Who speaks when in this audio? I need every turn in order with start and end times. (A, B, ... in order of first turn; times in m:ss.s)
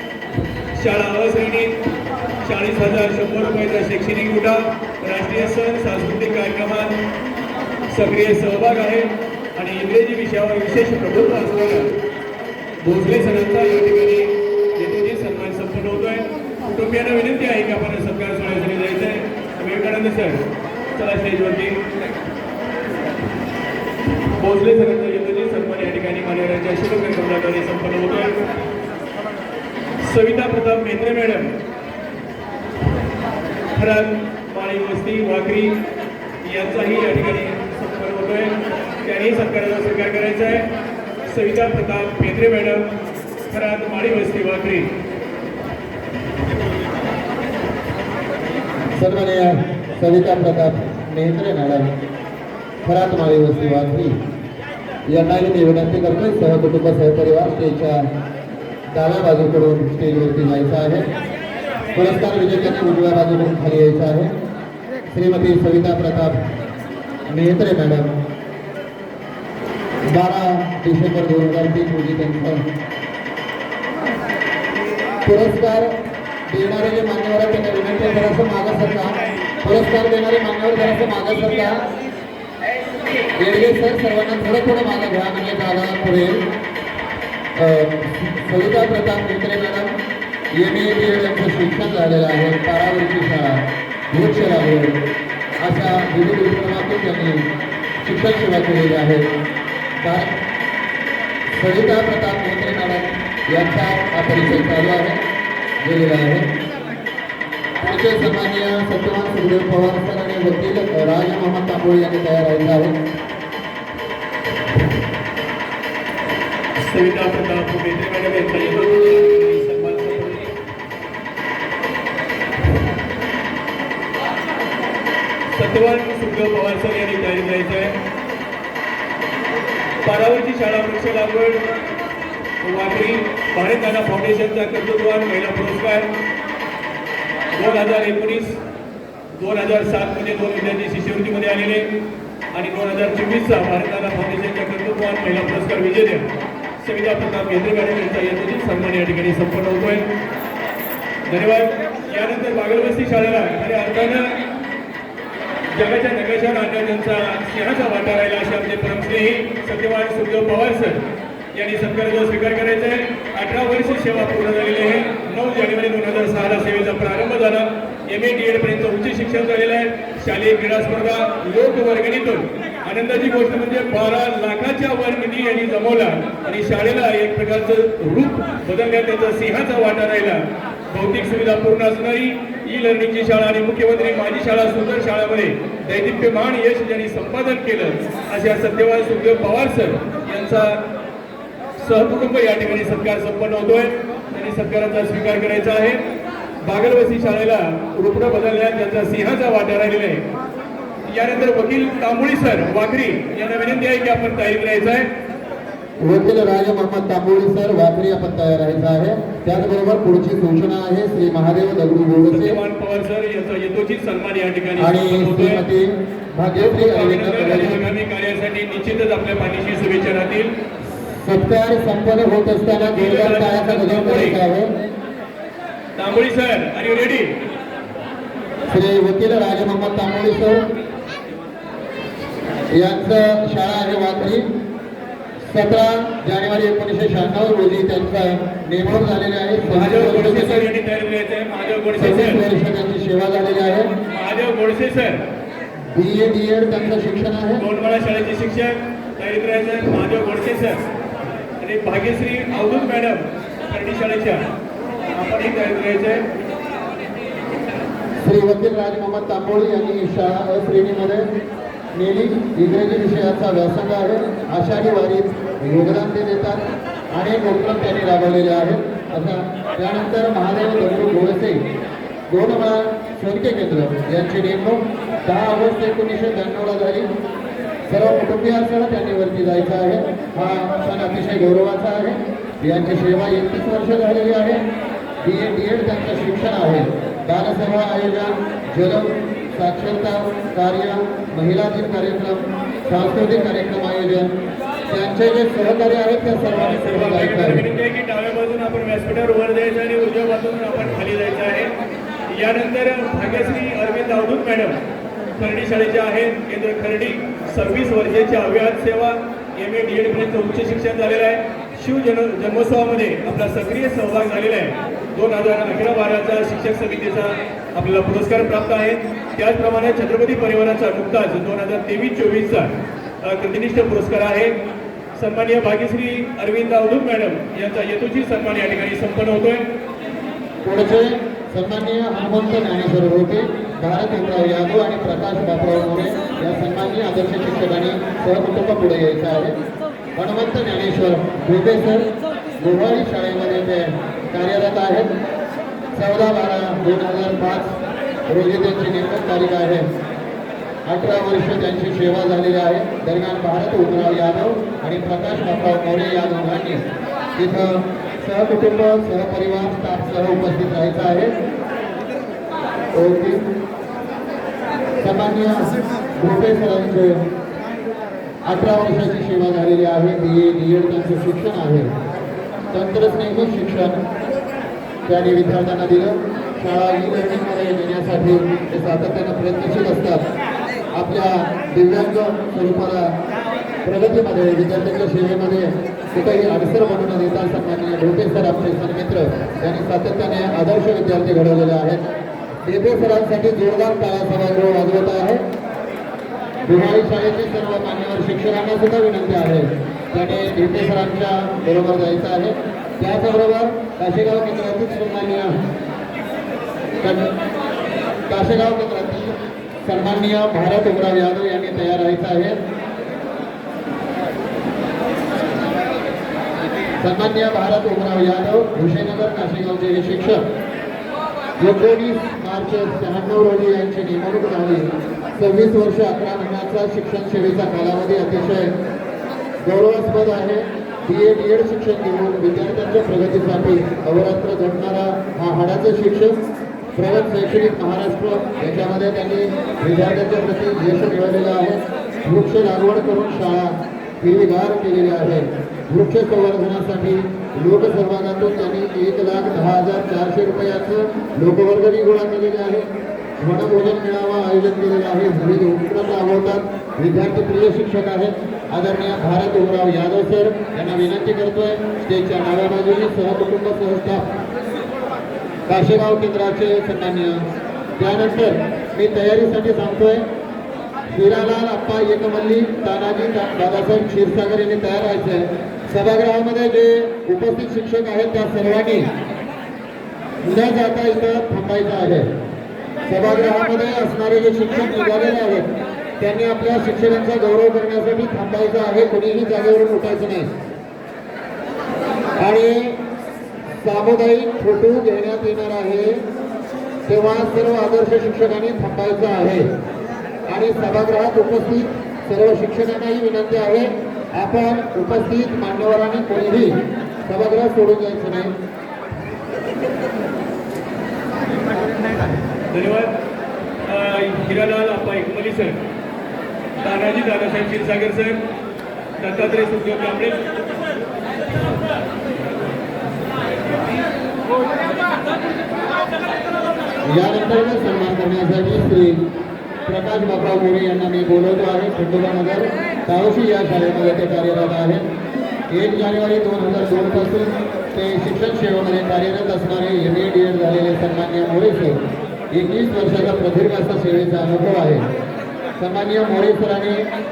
0:00.7-0:01.8 A
0:02.4-0:07.0 A
0:07.9-0:11.9 A
0:12.8-0:20.4 A
0:21.0-0:21.8 A
0:24.4-0:28.4 A
0:30.0-0:31.5 A
0:33.7-0:35.8 A
0:36.4-0:40.7 A
0:41.2-0:42.9 A
0:43.5-0:44.9 A
0:49.0-0:51.9 B
0:52.8-0:54.2 B
0:55.1-0:58.0 B
0:58.9-1:01.1 B
1:01.9-1:04.3 B
1:05.1-1:06.4 B
1:07.3-1:08.1 B
1:10.1-1:12.6 B
1:15.2-1:15.9 B
1:16.5-1:21.8 B
1:23.4-1:26.4 B
1:27.6-1:29.9 B
1:30.5-1:35.0 B
1:35.6-1:37.4 B
1:38.0-1:39.3 B
1:40.0-1:40.4 B
1:41.6-1:45.2 B
1:45.8-1:46.5 B
1:47.8-1:52.9 B
1:56.8-2:00.5 A
2:05.6-2:08.0 A
2:10.0-2:11.6 A
2:12.6-2:16.1 A
2:17.5-2:18.6 A
2:19.4-2:21.9 A
2:22.5-2:26.3 A
2:26.8-2:30.1 A
2:31.3-2:34.4 A
2:35.7-2:41.0 A
2:41.5-3:10.8 A
3:11.8-3:16.0 A
3:16.6-3:20.2 A
3:21.1-3:25.1 A
3:26.0-3:32.6 B
3:32.3-3:35.6 A
3:34.8-3:37.8 B
3:36.5-3:40.5 A
3:41.0-3:44.7 B
3:42.9-3:44.4 A
3:46.0-3:47.3 A
3:48.7-3:50.6 B
3:52.7-3:54.5 B
3:55.5-4:00.7 B
3:59.6-4:02.4 A
4:02.0-4:03.9 B
4:04.1-4:05.2 A
4:05.9-4:07.6 B
4:07.6-4:10.8 A
4:11.6-4:14.4 A
4:15.1-4:16.2 A
4:18.2-4:21.3 B
4:21.9-4:26.6 B
4:27.1-4:31.6 B
4:32.3-4:37.1 B
4:37.9-4:44.6 B
4:45.2-4:54.3 B
4:54.9-4:57.6 B
4:56.3-5:01.7 A
5:02.3-5:04.8 A
5:05.4-5:22.7 A
5:23.2-5:24.5 A
5:25.1-5:29.6 A
5:30.6-5:39.6 B
5:40.2-5:42.1 B
5:42.6-5:45.1 B
5:45.9-5:47.7 B
5:48.3-5:49.9 B
5:50.8-5:56.8 B
5:57.4-6:01.3 B
6:02.9-6:03.4 B
6:05.0-6:07.2 B
6:08.4-6:11.9 B
6:12.7-6:14.0 B
6:15.0-6:20.2 B
6:20.9-6:23.1 B
6:23.8-6:32.0 B
6:32.6-6:35.4 B
6:36.6-6:45.5 B
6:47.0-6:47.3 B
6:48.3-6:49.3 B
6:49.8-6:52.6 B
6:57.0-7:00.4 B
7:01.6-7:08.7 B
7:09.6-7:16.4 B
7:17.0-7:32.9 B
7:33.4-7:44.2 B
7:45.7-7:47.4 B
7:48.0-7:50.2 B
7:51.1-7:59.1 B
8:00.4-8:02.3 B
8:03.1-8:05.7 B
8:06.2-8:10.5 B
8:12.4-8:13.0 B
8:13.8-8:16.2 B
8:17.1-8:19.7 B
8:20.5-8:28.5 B
8:32.7-8:33.1 A
8:33.8-8:35.8 A
8:36.8-8:38.4 A
8:39.2-8:40.4 A
8:47.1-8:49.2 B
8:49.9-8:55.0 B
8:55.7-9:02.0 B
9:02.5-9:05.1 B
9:05.8-9:07.1 B